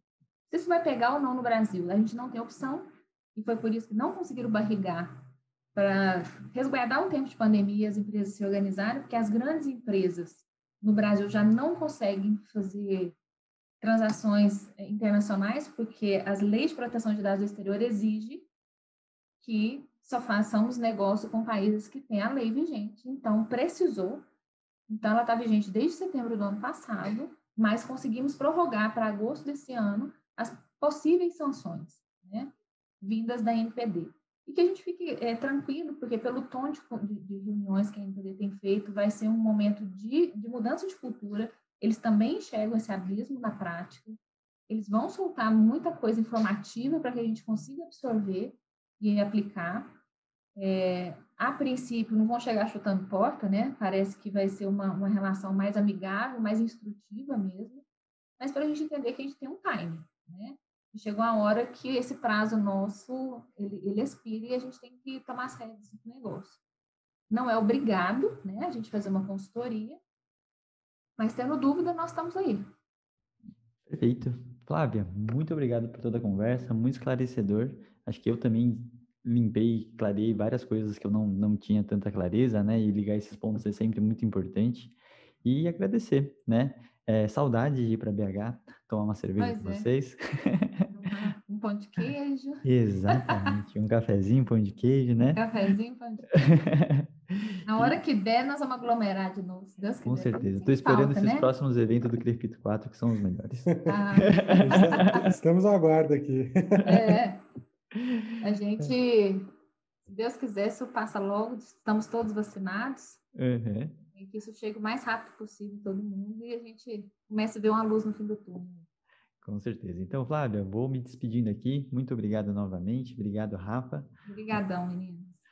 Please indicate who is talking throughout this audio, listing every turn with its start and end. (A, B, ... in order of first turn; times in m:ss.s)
0:00.5-0:13.2 A
0:13.8-0:18.5 A
0:19.4-0:24.2 A
0:24.9-0:50.0 A
0:50.6-0:57.9 A
0:58.4-1:06.6 A
1:07.3-1:10.0 A
1:11.2-1:12.7 A
1:13.9-1:30.9 B
1:29.4-1:29.9 A
1:30.9-1:33.6 A
1:32.6-1:35.4 B
1:35.4-1:36.4 A
1:36.4-1:38.0 B
1:37.7-1:41.5 A
1:40.0-1:45.2 B
1:43.9-1:45.3 A
1:44.5-1:47.0 C
1:46.8-1:47.4 A
1:48.0-1:48.3 B
1:48.4-1:49.5 A
1:50.0-1:53.2 A
1:53.4-1:54.0 B
1:54.1-1:58.9 A
1:59.4-2:04.1 B
2:04.2-2:05.4 A